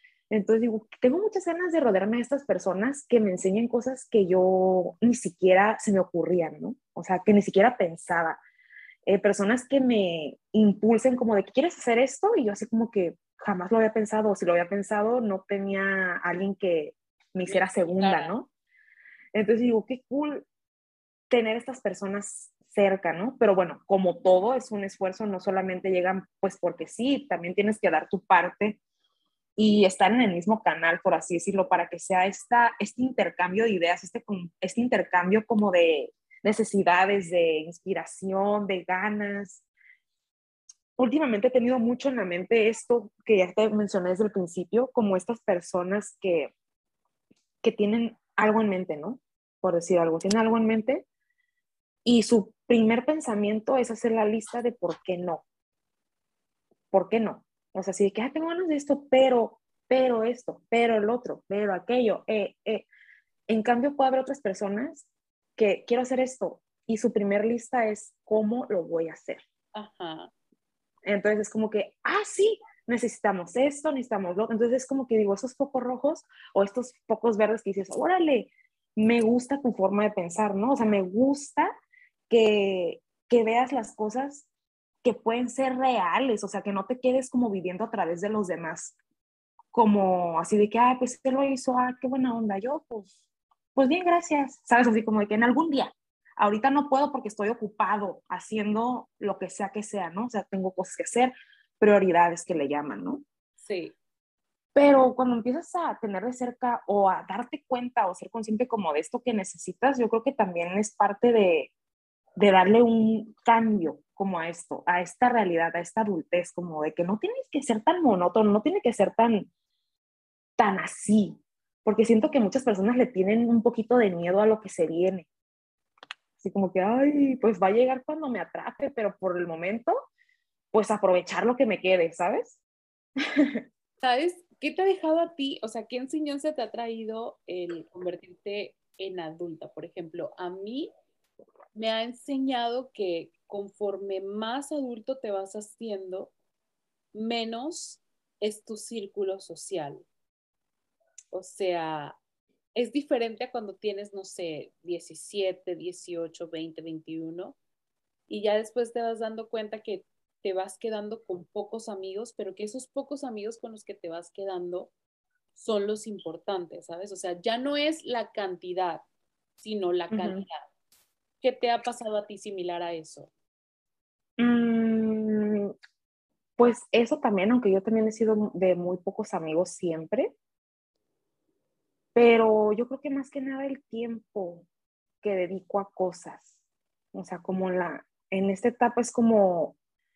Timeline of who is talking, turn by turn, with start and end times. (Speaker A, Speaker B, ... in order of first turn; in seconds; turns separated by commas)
Speaker A: 0.3-8.4, Speaker A: 9.1-18.5, Speaker B: 17.5-18.4, Speaker A: 19.3-20.5, Speaker A: 21.3-28.8, Speaker A: 29.6-39.6, Speaker A: 41.0-46.5, Speaker A: 47.6-51.1, Speaker A: 52.0-55.5, Speaker A: 56.9-62.9, Speaker A: 63.5-69.4, Speaker B: 69.8-70.3, Speaker A: 71.0-81.7, Speaker A: 82.3-84.5, Speaker A: 85.0-89.0, Speaker A: 89.7-93.1, Speaker A: 93.8-103.2, Speaker B: 103.6-104.0, Speaker A: 104.8-111.7, Speaker A: 112.4-119.5, Speaker A: 120.6-125.3, Speaker A: 126.4-129.9, Speaker A: 130.7-132.6, Speaker A: 133.3-133.6, Speaker B: 134.0-140.9, Speaker B: 141.7-146.3, Speaker B: 147.1-150.1, Speaker B: 151.3-152.2, Speaker B: 152.7-157.6, Speaker B: 158.3-164.9, Speaker B: 165.6-169.1, Speaker B: 169.6-170.7, Speaker A: 170.1-170.4, Speaker B: 171.4-173.3, Speaker A: 174.4-175.7, Speaker A: 176.6-180.3, Speaker A: 182.2-184.7, Speaker A: 185.2-186.5, Speaker A: 187.1-189.8